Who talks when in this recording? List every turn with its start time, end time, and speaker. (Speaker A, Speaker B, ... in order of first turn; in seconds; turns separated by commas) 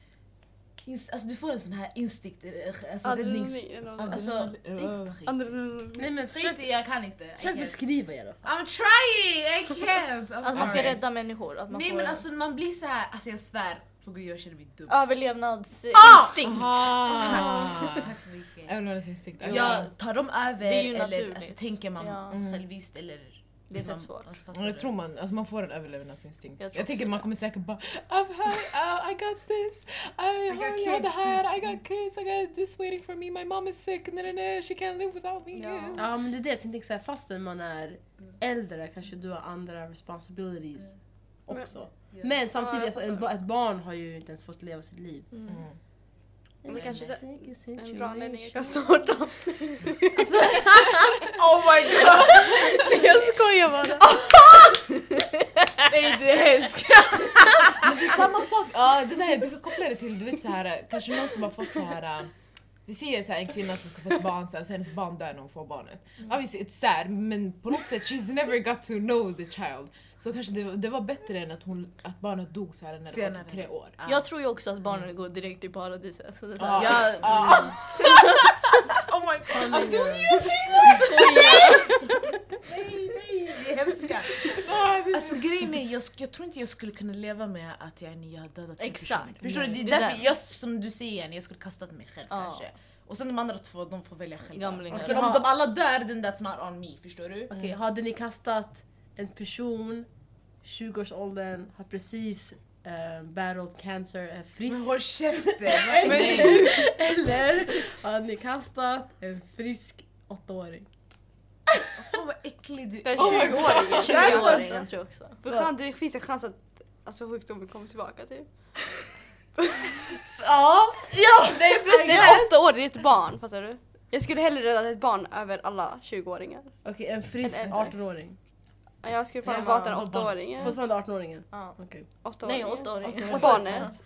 Speaker A: 0.8-5.2, Speaker B: 3.0-4.3, Speaker C: 4.0-5.3, Speaker B: 5.3-6.1, Speaker D: 6.0-6.7, Speaker A: 6.2-7.8, Speaker D: 7.4-8.5, Speaker A: 8.4-11.0, Speaker E: 10.4-12.2, Speaker C: 10.5-11.0, Speaker A: 11.7-15.0, Speaker E: 14.9-17.6, Speaker A: 15.9-16.6, Speaker C: 16.4-18.1, Speaker A: 17.2-18.8, Speaker C: 18.7-19.9, Speaker A: 19.4-24.9, Speaker E: 19.4-19.9, Speaker E: 20.6-22.4, Speaker C: 22.3-22.6, Speaker E: 23.7-24.3, Speaker C: 24.5-36.0, Speaker E: 26.6-27.2, Speaker A: 30.5-31.5, Speaker E: 35.5-36.0, Speaker D: 36.0-45.3, Speaker A: 42.1-42.4, Speaker E: 45.3-45.6, Speaker C: 45.5-45.8, Speaker D: 46.6-49.2, Speaker B: 46.7-50.6, Speaker A: 46.7-47.1, Speaker D: 50.2-51.2, Speaker A: 51.3-52.8, Speaker C: 51.9-52.9, Speaker B: 52.0-54.1, Speaker A: 54.1-54.8, Speaker A: 55.9-58.2, Speaker C: 57.7-62.3, Speaker C: 62.9-73.9, Speaker A: 73.1-74.3, Speaker E: 74.0-77.3, Speaker C: 76.6-78.6, Speaker A: 76.7-80.2, Speaker D: 79.5-80.3, Speaker C: 79.9-80.3, Speaker E: 80.8-82.1, Speaker A: 81.0-81.4, Speaker B: 81.4-81.9, Speaker A: 82.7-97.5, Speaker C: 84.5-85.7, Speaker E: 88.8-90.2, Speaker C: 89.4-90.1, Speaker E: 92.3-92.6, Speaker E: 94.5-95.3, Speaker D: 94.9-95.5, Speaker D: 97.5-100.1, Speaker D: 100.6-110.9, Speaker A: 104.7-106.7, Speaker B: 106.0-106.9, Speaker C: 106.1-106.6, Speaker A: 112.0-114.8, Speaker B: 113.0-114.9, Speaker C: 113.2-114.6, Speaker E: 113.6-115.4, Speaker B: 115.4-118.7, Speaker B: 119.7-119.9, Speaker D: 120.4-122.5, Speaker A: 121.6-122.4, Speaker B: 121.8-126.8, Speaker D: 126.8-128.4, Speaker B: 127.4-127.9, Speaker B: 129.0-130.8, Speaker E: 129.4-130.2, Speaker C: 129.9-130.6, Speaker D: 130.6-132.1, Speaker E: 131.5-131.8, Speaker B: 132.2-133.9, Speaker E: 132.4-134.0